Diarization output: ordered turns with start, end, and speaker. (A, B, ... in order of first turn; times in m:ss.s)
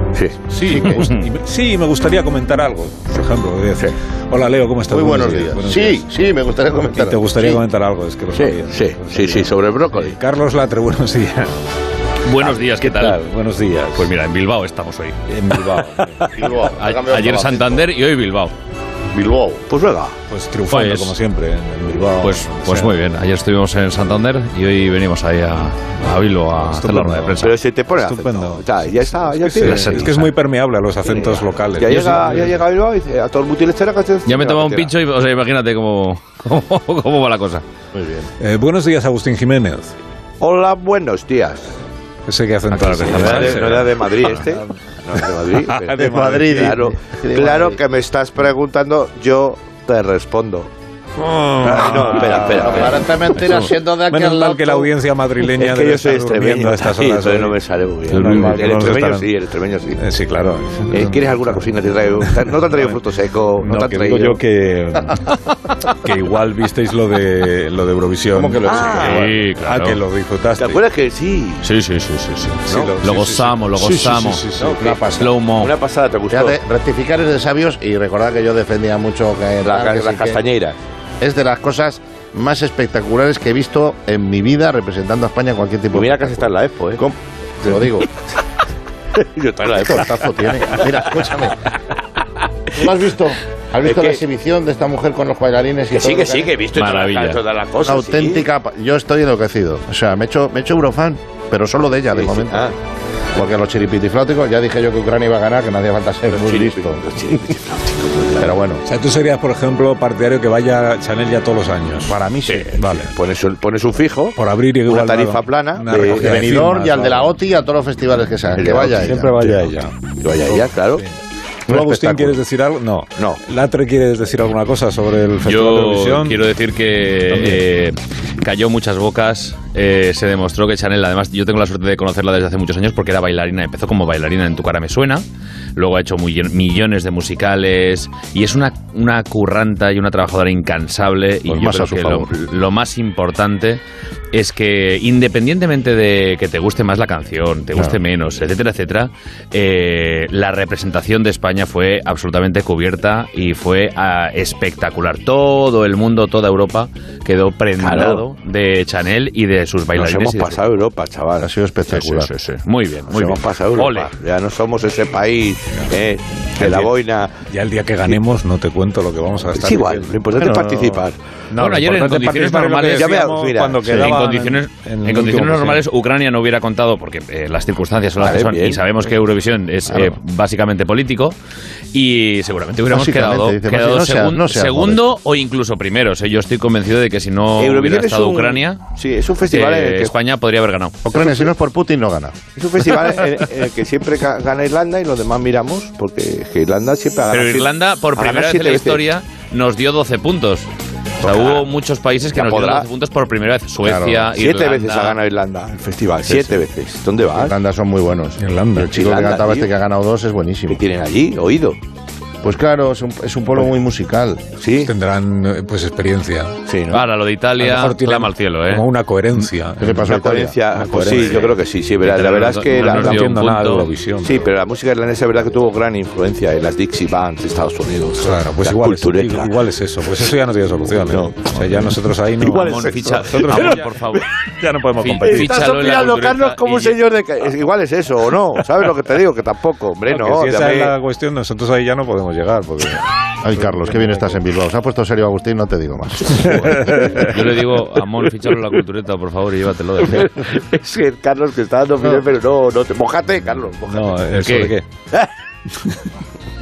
0:00.2-0:01.0 A
0:00.5-0:06.1 B
0:00.8-0:01.2 C
0:04.9-0:07.3 D
0:06.8-0:11.6 B
0:08.4-0:10.2 A
0:12.2-0:13.2 C
0:12.6-0:14.1 B
0:14.0-0:15.2 C
0:15.3-0:16.3 B
0:16.3-0:17.9 D
0:16.8-0:18.5 C
0:19.1-0:19.6 D
0:19.7-0:20.2 A
0:20.3-0:23.0 B
0:20.7-0:21.2 C
0:22.2-0:27.6 C
0:26.5-0:32.6 B
0:27.4-0:30.2 A
0:29.7-0:30.3 C
0:31.1-0:34.9 A
0:34.2-0:37.6 C
0:37.9-0:38.3 D
0:38.4-0:40.0 B
0:40.4-0:41.8 A
0:42.3-0:44.7 B
0:42.7-0:43.9 C
0:43.0-0:50.7 A
0:45.5-0:46.8 B
0:45.9-0:47.8 D
0:51.2-0:59.3 B
0:51.6-0:53.1 A
0:52.4-0:54.9 D
0:55.6-1:00.0 A
1:00.0-1:01.7 B
1:00.9-1:04.4 A
1:02.3-1:03.0 B
1:03.6-1:05.2 B
1:05.9-1:10.8 B
1:08.3-1:09.4 D
1:08.7-1:09.3 A
1:09.0-1:10.0 C
1:10.6-1:11.6 A
1:11.6-1:14.5 C
1:12.7-1:14.8 B
1:14.6-1:16.6 A
1:14.8-1:15.4 D
1:15.1-1:15.7 C
1:16.3-1:20.4 D
1:19.6-1:20.8 A
1:21.2-1:28.1 D
1:25.9-1:27.0 A
1:29.2-1:30.3 A
1:29.7-1:31.6 D
1:32.7-1:36.6 D
1:33.8-1:34.2 A
1:35.9-1:38.5 A
1:36.7-1:37.4 C
1:37.8-1:42.7 D
1:42.1-1:42.7 A
1:43.4-1:47.0 D
1:46.3-1:48.6 A
1:48.4-1:48.8 D
1:48.8-1:52.2 B
1:52.1-1:52.8 D
1:52.5-1:54.4 A
1:52.8-1:53.1 B
1:54.4-1:57.4 B
1:54.9-1:56.4 A
1:56.1-1:59.4 D
1:58.6-1:59.5 A
1:58.7-2:00.0 B
2:00.2-2:01.0 A
2:00.5-2:01.2 B
2:01.7-2:02.4 D
2:01.7-2:06.4 B
2:05.4-2:15.2 C
2:07.3-2:07.7 B
2:15.8-2:23.8 C
2:21.5-2:22.3 D
2:24.3-2:40.6 C
2:27.8-2:28.0 D
2:37.8-2:38.2 A
2:39.9-2:41.5 A
2:41.4-2:42.3 D
2:41.9-2:44.2 C
2:43.1-2:47.4 A
2:47.5-2:55.8 B
2:49.5-2:51.2 A
2:51.5-2:53.3 C
2:52.9-2:54.1 A
2:53.9-3:01.4 C
2:58.2-2:58.8 A
3:01.9-3:08.8 C
3:02.9-3:05.1 D
3:07.6-3:10.1 A
3:09.4-3:11.0 C
3:11.0-3:12.4 D
3:12.6-3:19.0 A
3:17.3-3:20.7 C
3:21.2-3:25.2 C
3:21.2-3:21.6 A
3:22.3-3:22.9 A
3:23.8-3:24.3 D
3:24.3-3:27.5 A
3:27.4-3:30.8 D
3:28.4-3:28.9 B
3:28.8-3:29.7 A
3:30.7-3:31.8 A
3:32.4-3:34.5 D
3:34.5-3:34.9 A
3:34.8-3:36.6 B
3:36.7-3:37.0 A
3:36.9-3:38.9 C
3:37.6-3:41.5 B
3:39.8-3:40.5 D
3:40.0-3:43.2 A
3:41.2-3:43.9 C
3:42.7-3:44.5 B
3:44.2-3:49.5 A
3:48.2-3:53.9 B
3:51.1-3:51.5 A
3:52.4-3:53.8 A
3:52.7-3:54.3 C
3:54.6-3:55.6 B
3:55.0-3:57.0 C
3:55.3-4:00.9 A
4:00.1-4:03.0 B
4:03.4-4:06.4 D
4:06.4-4:07.3 B
4:06.8-4:10.5 C
4:10.1-4:14.3 A
4:13.9-4:14.9 B
4:14.3-4:14.8 C